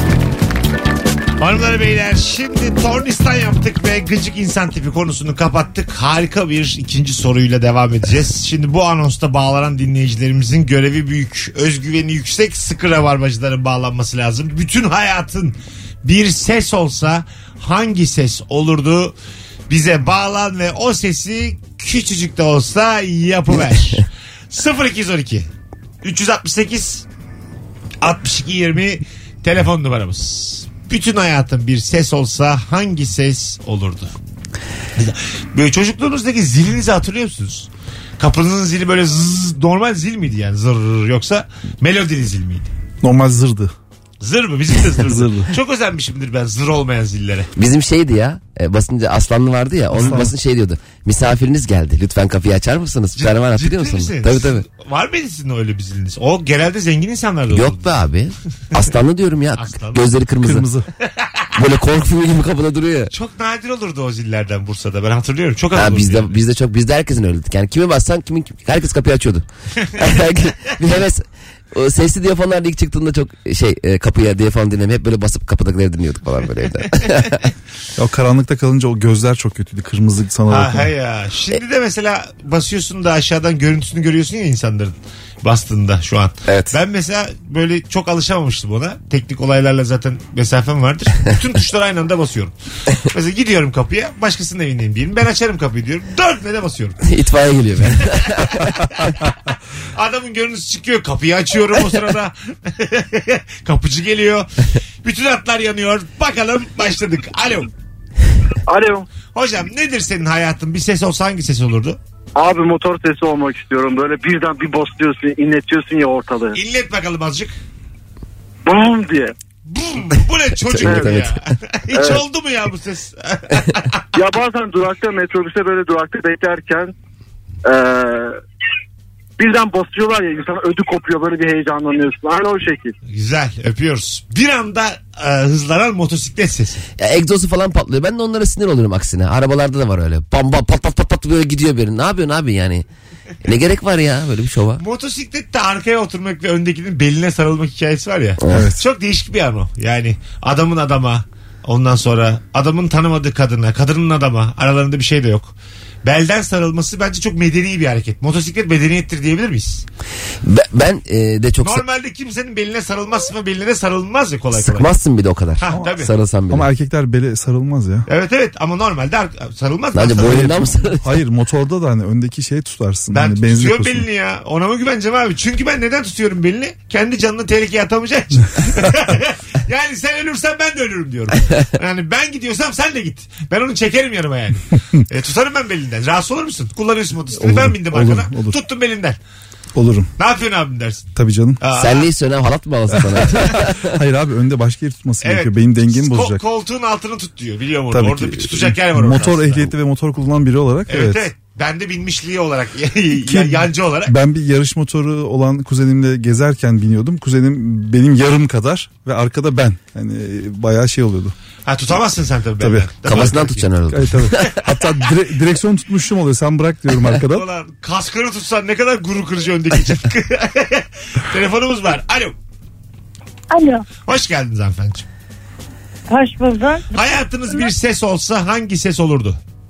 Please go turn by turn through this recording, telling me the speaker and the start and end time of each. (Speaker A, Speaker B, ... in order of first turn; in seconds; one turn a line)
Speaker A: 1.4-19.1
Speaker A: 19.7-25.5
Speaker A: 26.0-27.0
Speaker A: 28.0-34.1
Speaker A: 35.0-42.7
Speaker B: 43.0-43.7
Speaker A: 44.2-47.5
Speaker B: 45.0-45.5
Speaker C: 47.5-54.6
Speaker A: 50.0-50.2
Speaker B: 50.0-50.3
Speaker A: 53.1-58.0
Speaker C: 57.5-60.6
Speaker A: 59.5-60.1
Speaker B: 60.4-60.9
Speaker C: 61.5-63.1
Speaker A: 63.1-66.4
Speaker C: 65.7-69.4
Speaker C: 70.0-77.5
Speaker B: 78.0-80.9
Speaker A: 80.5-97.0
Speaker C: 86.5-86.7
Speaker C: 97.0-98.7
Speaker A: 98.5-99.1
Speaker A: 99.9-104.5
Speaker A: 105.0-107.7
Speaker D: 108.7-109.1
Speaker A: 109.3-112.0
Speaker D: 112.3-116.6
Speaker A: 116.5-117.5
Speaker D: 118.6-119.3
Speaker A: 119.7-124.0
Speaker C: 120.7-121.4
Speaker D: 121.9-122.2
Speaker D: 124.1-126.9
Speaker D: 127.6-128.3
Speaker D: 129.4-132.9
Speaker A: 133.1-136.8
Speaker C: 137.0-142.8
Speaker C: 143.4-144.8
Speaker A: 144.8-159.8
Speaker C: 148.4-148.7
Speaker B: 148.5-148.8
Speaker C: 160.4-161.8
Speaker A: 161.6-164.9
Speaker C: 164.5-166.7
Speaker A: 165.6-166.1
Speaker B: 166.5-168.1
Speaker A: 168.1-170.7
Speaker C: 169.9-171.1
Speaker B: 171.0-174.1
Speaker A: 173.1-189.2
Speaker B: 187.3-188.6
Speaker B: 189.7-190.1
Speaker A: 190.2-192.1
Speaker B: 191.1-191.6
Speaker C: 191.7-193.9
Speaker B: 193.1-196.4
Speaker A: 195.2-199.7
Speaker B: 197.9-201.3
Speaker A: 200.9-204.1
Speaker B: 203.2-211.3
Speaker A: 211.7-213.7
Speaker B: 212.6-213.3
Speaker C: 213.1-214.6
Speaker B: 213.9-217.4
Speaker A: 217.2-222.3
Speaker E: 223.5-223.9
Speaker A: 224.1-225.1
Speaker E: 226.1-227.7
Speaker A: 226.9-229.4